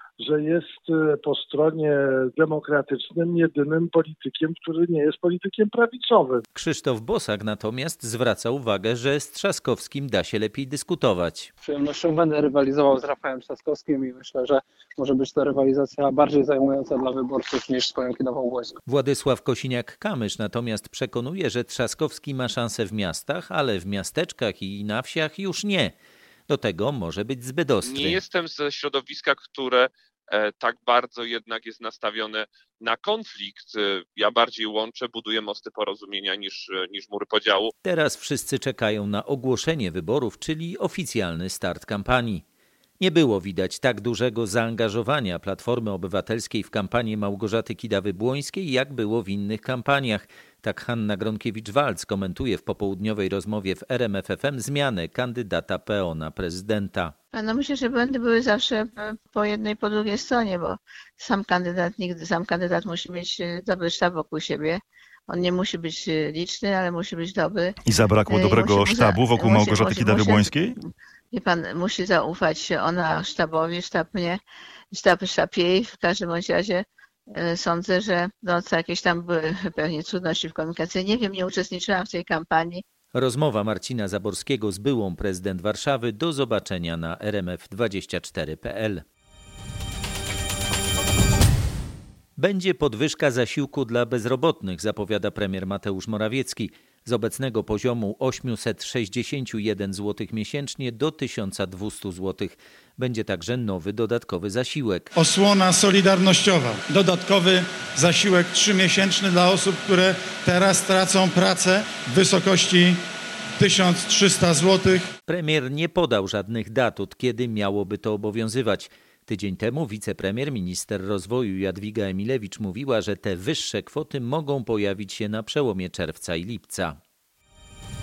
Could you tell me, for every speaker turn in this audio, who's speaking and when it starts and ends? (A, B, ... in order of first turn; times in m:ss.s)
0:00.2-0:06.4 A
0:06.5-0:11.5 B
0:11.6-0:18.8 C
0:18.9-0:25.9 B
0:26.5-0:28.2 B
0:27.8-0:37.7 D
0:37.8-0:42.4 B
0:43.0-0:57.1 B
0:57.3-1:07.7 E
1:07.8-1:10.7 F
1:08.2-1:10.7 E
1:11.3-1:14.4 E
1:14.9-1:16.8 E
1:17.4-1:22.8 E
1:23.1-1:29.0 B
1:32.4-1:45.1 B
1:45.2-1:53.0 G
1:53.6-1:55.0 G
1:55.3-2:07.0 B